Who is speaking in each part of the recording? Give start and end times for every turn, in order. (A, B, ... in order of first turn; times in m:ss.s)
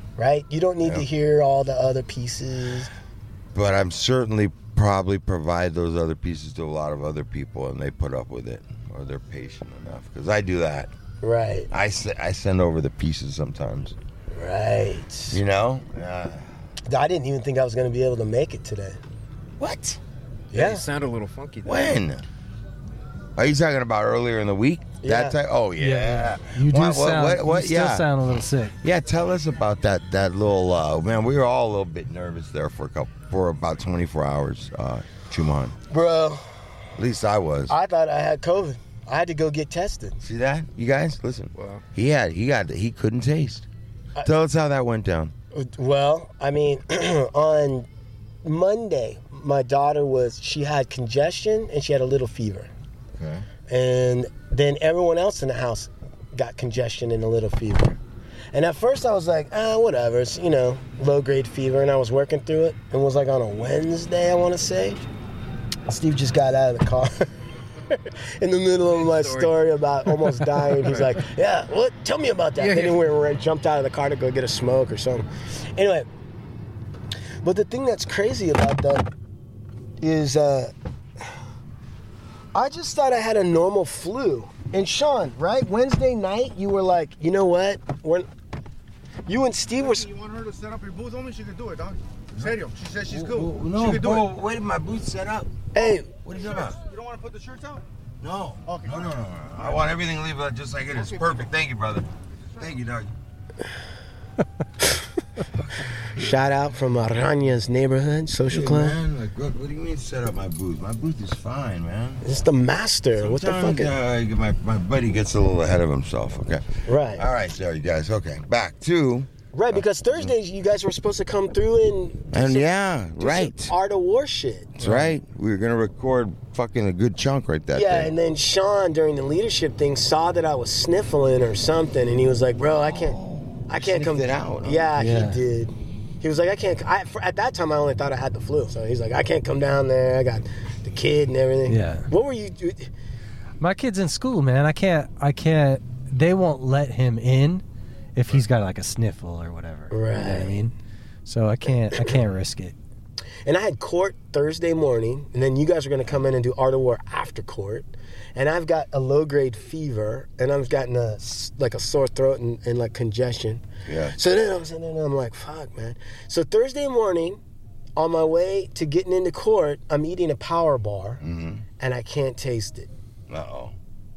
0:00.2-0:02.9 A
0:03.5-0:10.9 B
0:11.2-0:11.7 A
0:11.7-0:14.0 B
0:14.3-0:15.4 A
0:15.3-0:16.5 B
0:16.9-0:19.0 A
0:19.6-0:20.0 B
0:20.5-0:20.8 A
0:20.5-0:22.0 C
0:21.6-0:22.2 B
0:23.4-0:28.1 B
0:25.0-0:25.4 A
0:25.8-0:28.7 D
0:28.8-0:35.8 B
0:35.9-0:36.4 A
0:37.0-0:37.7 B
0:37.7-0:40.2 A
0:40.2-0:43.7 B
0:41.6-0:41.8 C
0:44.2-0:45.3 B
0:45.5-0:47.9 A
0:48.4-0:52.7 A
0:53.2-0:53.5 B
0:53.7-0:58.0 A
0:58.5-1:05.0 A
1:05.9-1:07.3 A
1:07.9-1:16.1 A
1:08.9-1:09.6 C
1:10.8-1:11.1 C
1:12.6-1:13.0 C
1:17.4-1:19.1 A
1:20.0-1:20.7 A
1:22.5-1:28.3 A
1:29.3-1:30.1 A
1:29.8-1:34.3 E
1:33.1-1:35.5 B
1:35.7-1:36.1 A
1:36.2-1:36.8 B
1:36.3-1:37.8 E
1:38.2-1:43.1 B
1:38.6-1:39.9 E
1:41.0-1:41.4 E
1:45.8-1:46.3 B
1:46.1-1:49.0 A
1:48.5-1:52.2 B
1:52.2-1:53.9 A
1:53.2-2:00.3 B
1:56.9-1:57.2 A
1:59.5-2:04.8 A
2:02.3-2:03.7 B
2:04.8-2:08.1 B
2:04.8-2:05.1 D
2:07.7-2:22.9 A
2:12.8-2:15.0 B
2:15.0-2:15.4 D
2:21.7-2:22.1 D
2:23.6-2:27.6 D
2:28.2-2:30.7 D
2:29.9-2:30.6 A
2:31.3-2:32.8 D
2:33.5-2:47.4 A
2:43.9-2:44.2 B
2:48.0-2:51.2 A
2:51.2-2:51.6 B
2:51.8-2:52.9 A
2:53.3-2:53.7 B